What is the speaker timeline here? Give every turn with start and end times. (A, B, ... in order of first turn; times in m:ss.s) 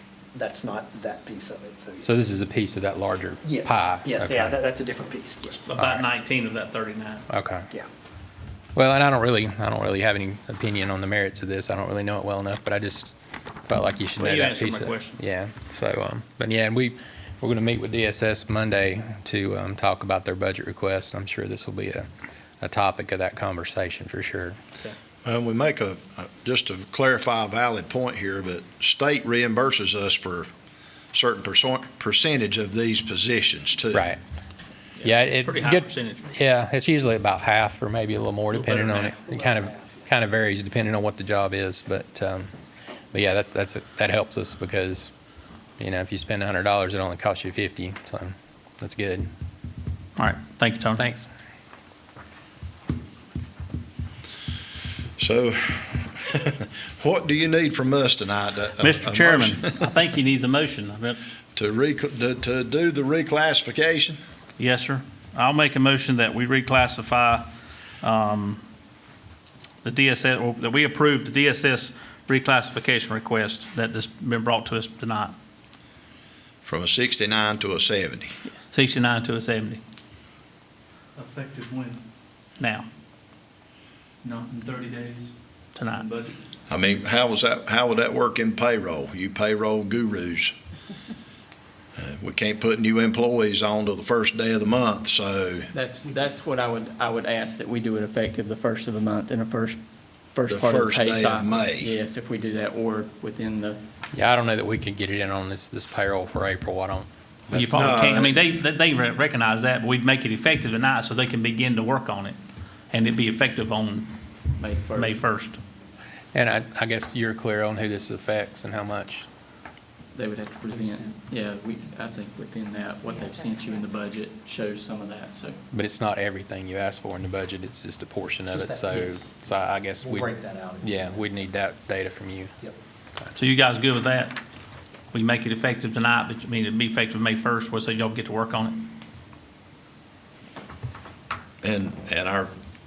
0:00.3-0:02.1 A
0:02.0-0:04.6 B
0:03.4-0:05.6 A
0:05.7-0:07.2 C
0:05.7-0:06.0 B
0:07.3-0:07.7 B
0:08.7-0:13.2 B
0:13.7-0:22.1 B
0:14.2-0:15.2 C
0:22.6-0:24.6 B
0:25.2-0:30.5 D
0:31.1-0:34.1 D
0:33.9-0:34.2 B
0:35.0-0:36.3 C
0:35.0-0:42.5 B
0:38.5-0:39.2 C
0:39.3-0:39.9 A
0:43.1-0:45.1 B
0:45.8-0:49.3 B
0:50.2-0:51.0 C
0:51.0-0:51.3 B
0:55.2-0:59.7 D
0:58.8-1:01.2 C
1:01.5-1:04.2 D
1:04.6-1:07.4 C
1:08.0-1:08.6 C
1:09.8-1:15.3 C
1:16.6-1:18.3 D
1:18.7-1:19.8 C
1:21.2-1:22.0 E
1:22.6-1:22.9 C
1:24.2-1:25.3 E
1:25.7-1:26.0 C
1:25.9-1:26.3 E
1:26.7-1:30.5 D
1:32.0-1:35.7 D
1:35.7-1:39.8 F
1:40.3-1:43.8 F
1:40.5-1:41.9 D
1:44.1-1:48.0 B
1:47.5-1:52.4 C
1:47.7-1:48.5 D
1:52.9-1:54.1 C
1:54.5-1:55.2 F
1:55.0-1:55.6 C
1:56.3-1:59.3 B
2:00.1-2:05.6 F
2:05.7-2:12.5 B
2:08.5-2:11.4 A
2:13.4-2:14.3 C
2:15.1-2:18.9 C
2:21.6-2:22.5 D